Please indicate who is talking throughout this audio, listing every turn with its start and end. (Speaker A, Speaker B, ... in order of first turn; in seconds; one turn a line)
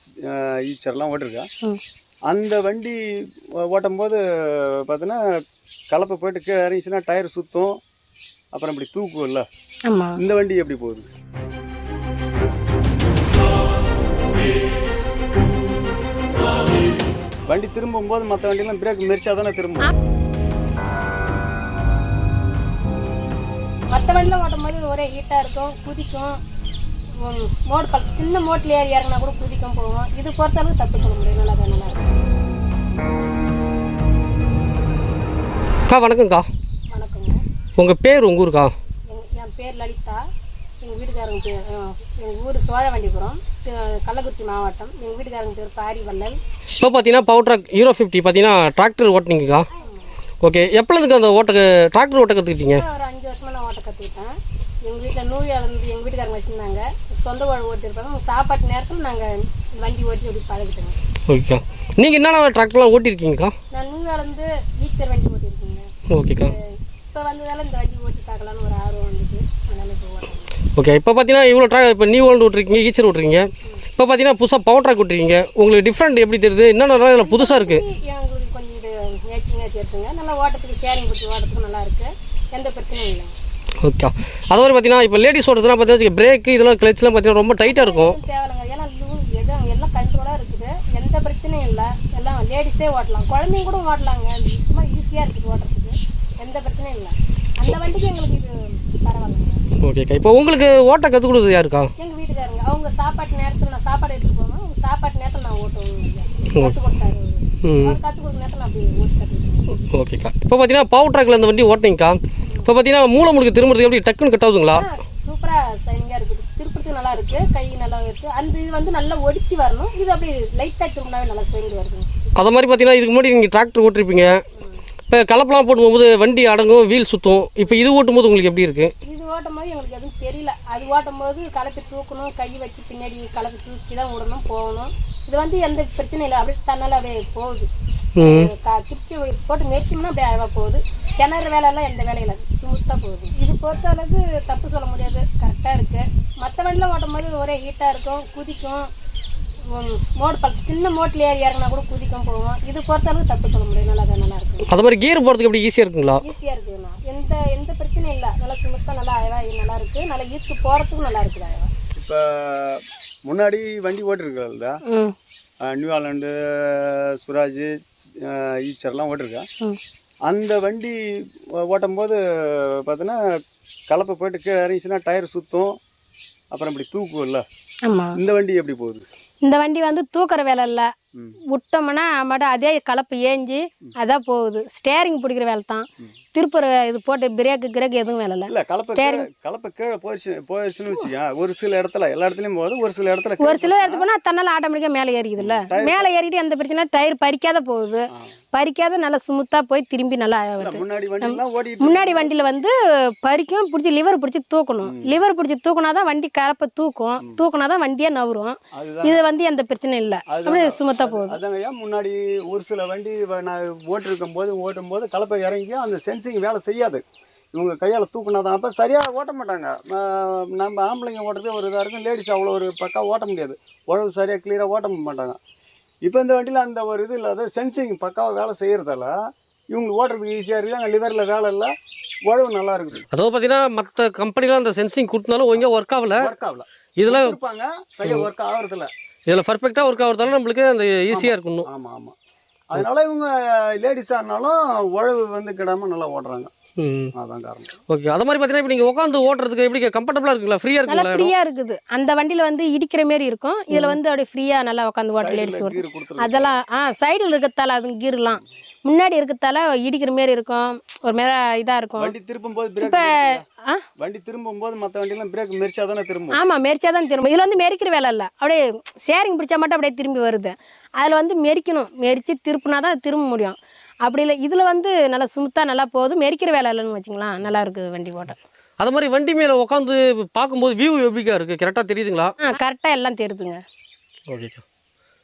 Speaker A: 0.3-1.5
Speaker A: 2.3-3.0
Speaker A: 3.6-5.2
Speaker A: 5.9-7.8
Speaker A: 8.5-9.4
Speaker B: 9.9-10.2
Speaker A: 10.2-11.1
Speaker A: 17.5-19.9
Speaker B: 23.9-26.4
Speaker B: 27.2-32.0
Speaker C: 35.9-36.5
Speaker B: 36.9-37.4
Speaker C: 37.8-38.7
Speaker B: 39.1-40.2
Speaker B: 40.8-46.4
Speaker C: 46.8-49.7
Speaker B: 49.8-50.1
Speaker C: 50.4-52.8
Speaker B: 52.7-61.0
Speaker C: 61.3-63.5
Speaker B: 63.7-65.9
Speaker C: 66.1-66.5
Speaker B: 66.4-70.5
Speaker C: 70.7-77.8
Speaker B: 77.2-83.3
Speaker C: 83.8-88.2
Speaker B: 87.6-99.6
Speaker C: 99.8-101.9
Speaker B: 102.0-109.8
Speaker C: 107.6-108.0
Speaker C: 109.8-114.8
Speaker B: 114.7-122.1
Speaker C: 122.3-124.3
Speaker B: 124.6-124.8
Speaker C: 125.1-128.9
Speaker B: 129.0-137.7
Speaker C: 138.2-138.5
Speaker B: 138.2-148.9
Speaker B: 149.7-154.7
Speaker C: 154.7-156.2
Speaker B: 156.2-161.7
Speaker A: 161.9-164.8
Speaker B: 164.8-165.1
Speaker A: 165.7-167.7
Speaker A: 168.2-169.4
Speaker A: 170.3-171.0
Speaker A: 171.6-173.2
Speaker A: 173.9-175.8
Speaker A: 176.5-177.4
Speaker B: 177.8-178.2
Speaker A: 178.1-179.0
Speaker B: 179.4-180.9
Speaker B: 181.5-189.3
Speaker A: 188.5-194.1
Speaker B: 193.4-202.7
Speaker A: 195.4-196.1
Speaker A: 200.6-202.3
Speaker B: 203.2-211.4
Speaker A: 204.8-205.2
Speaker A: 208.7-209.2
Speaker A: 210.3-217.0
Speaker A: 217.5-225.4
Speaker A: 226.1-229.1
Speaker A: 229.7-231.7
Speaker A: 232.3-233.0
Speaker C: 233.1-236.3
Speaker A: 236.2-238.9
Speaker C: 237.0-237.3
Speaker C: 239.3-241.7
Speaker A: 241.1-242.1
Speaker A: 242.7-246.5
Speaker C: 246.8-247.1
Speaker A: 247.1-247.8
Speaker C: 247.9-251.3
Speaker B: 250.9-262.1
Speaker A: 255.1-256.5
Speaker A: 262.0-263.4
Speaker B: 262.8-263.8
Speaker A: 264.0-266.4
Speaker B: 266.4-278.4
Speaker C: 278.8-282.4
Speaker B: 282.4-283.6
Speaker C: 284.3-284.6